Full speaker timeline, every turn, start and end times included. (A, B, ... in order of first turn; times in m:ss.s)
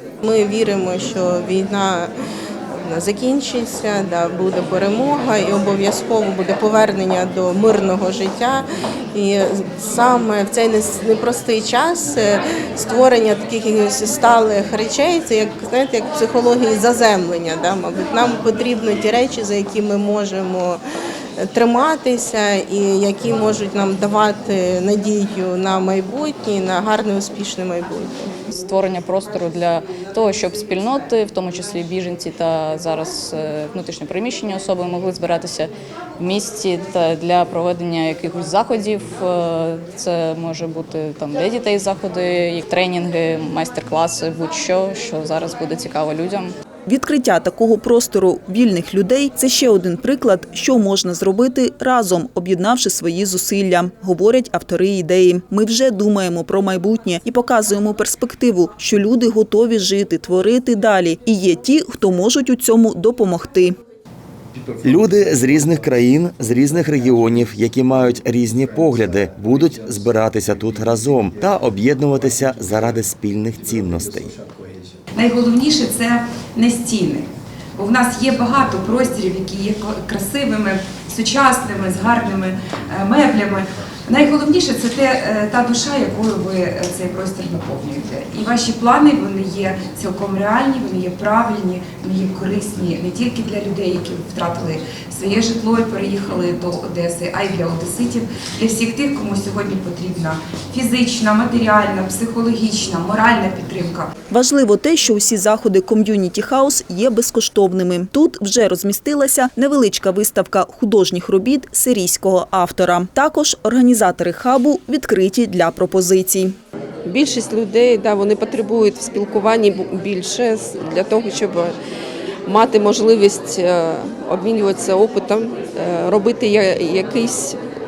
0:00.2-0:02.1 A
0:02.7-0:20.8 A
0:21.4-0:28.3 A
0:28.5-0:46.5 B
0:46.9-1:03.8 C
1:04.8-1:14.4 D
1:15.2-1:44.1 E
1:44.3-1:56.5 C
1:57.0-2:01.8 F
2:02.4-2:07.6 F